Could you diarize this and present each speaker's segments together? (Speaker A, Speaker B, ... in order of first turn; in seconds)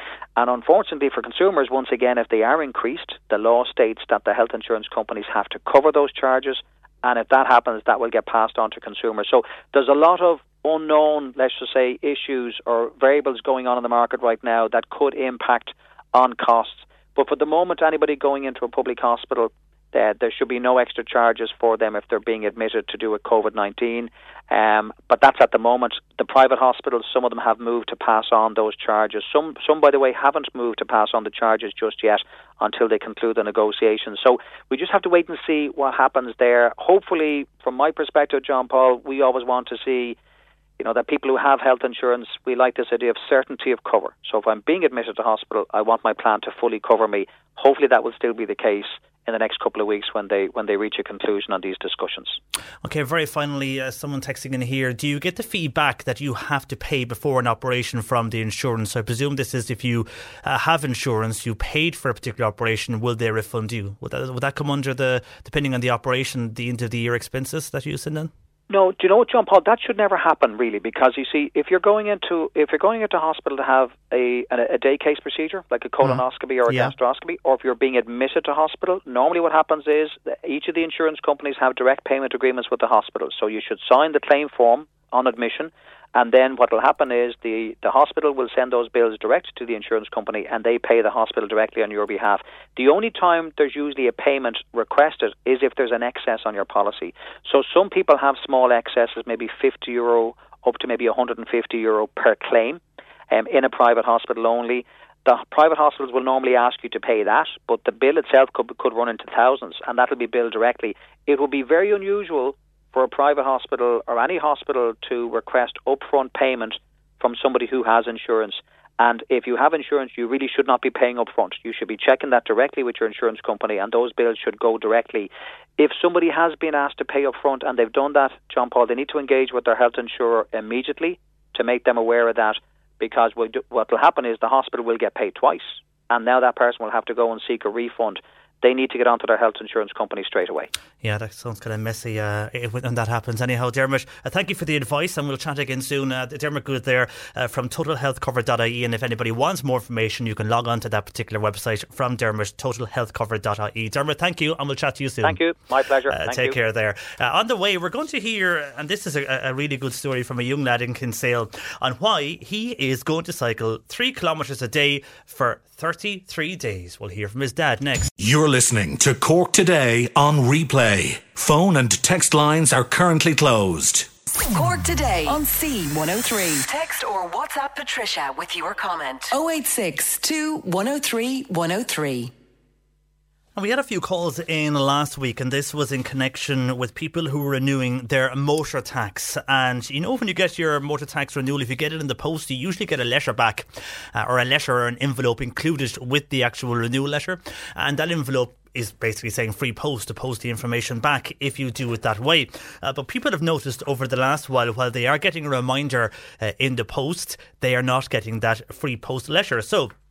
Speaker A: 0.3-40.2, 40.8-52.4, 68.7-102.8, 103.3-140.7, 155.2-156.5
Speaker B: 52.8-68.3, 76.0-76.9, 141.0-155.4, 156.1-168.1, 183.6-209.9
Speaker C: 168.2-174.1
Speaker D: 174.5-182.3